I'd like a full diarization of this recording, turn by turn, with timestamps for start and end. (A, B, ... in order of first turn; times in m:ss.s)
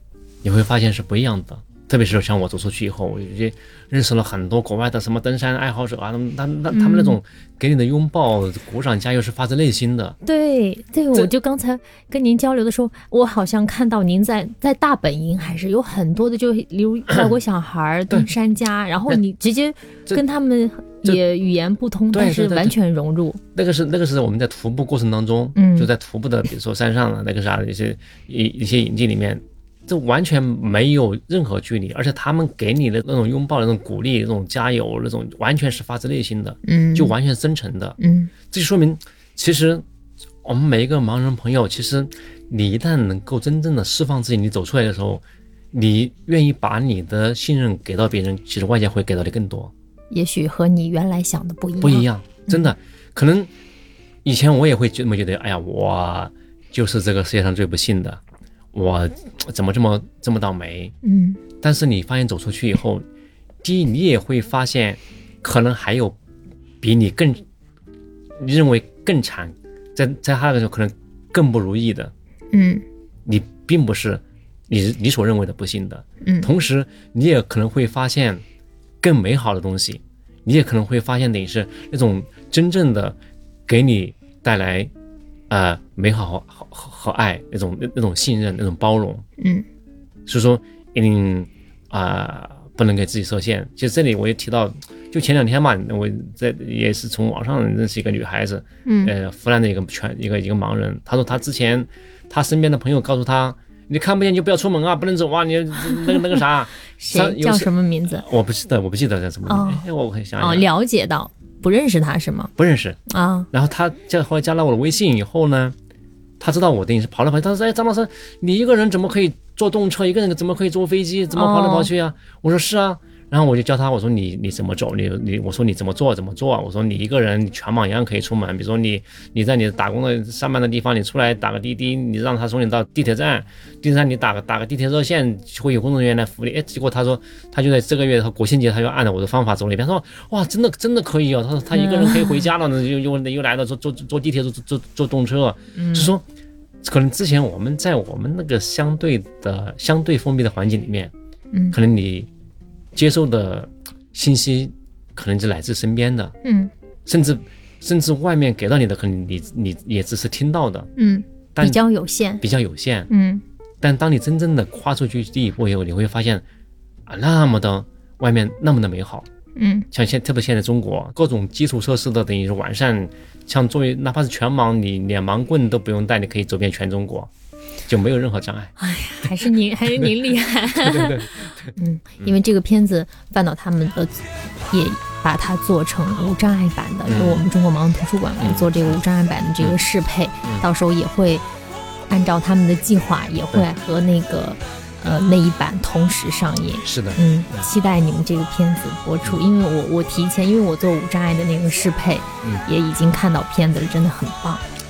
0:00.4-0:10.2 A
0:06.7-0:07.2 B
0:10.2-0:23.4 B
0:22.1-0:22.8 A
0:23.6-0:38.0 A
0:25.6-0:25.9 B
0:36.6-0:37.1 B
0:38.0-0:38.3 B
0:38.5-0:39.8 A
0:40.4-0:49.7 A
0:50.1-0:52.7 B
0:51.8-0:53.5 A
0:54.2-0:58.2 A
0:58.7-1:01.0 A
1:01.0-1:01.4 B
1:01.6-1:03.0 A
1:03.6-1:06.2 A
1:06.8-1:07.4 A
1:08.4-1:12.1 A
1:12.5-1:12.8 B
1:13.2-1:18.4 A
1:16.2-1:16.5 B
1:19.0-1:24.9 A
1:25.5-1:29.2 A
1:29.4-1:29.7 B
1:30.3-1:50.7 A
1:38.8-1:39.2 B
1:45.9-1:48.2 B
1:49.5-1:52.5 B
1:52.6-1:53.0 A
1:53.1-1:53.5 B
1:53.5-1:55.8 A
1:56.4-2:26.2 A
2:01.3-2:01.9 B
2:21.7-2:22.5 B
2:25.8-2:26.1 B
2:26.8-2:31.1 A
2:31.5-2:31.8 B
2:31.7-2:32.3 A
2:32.9-2:36.4 A
2:36.4-2:36.7 B
2:37.1-2:40.9 A
2:41.0-2:42.4 B
2:42.4-2:43.1 A
2:43.1-2:43.4 B
2:43.8-2:46.4 A
2:47.1-2:49.3 A
2:49.6-2:49.9 B
2:49.9-2:57.3 A
2:57.9-2:58.7 A
2:58.8-3:11.4 B
3:00.8-3:02.4 A
3:07.1-3:07.4 A
3:08.4-3:09.0 A
3:12.1-3:24.6 B
3:16.8-3:17.7 A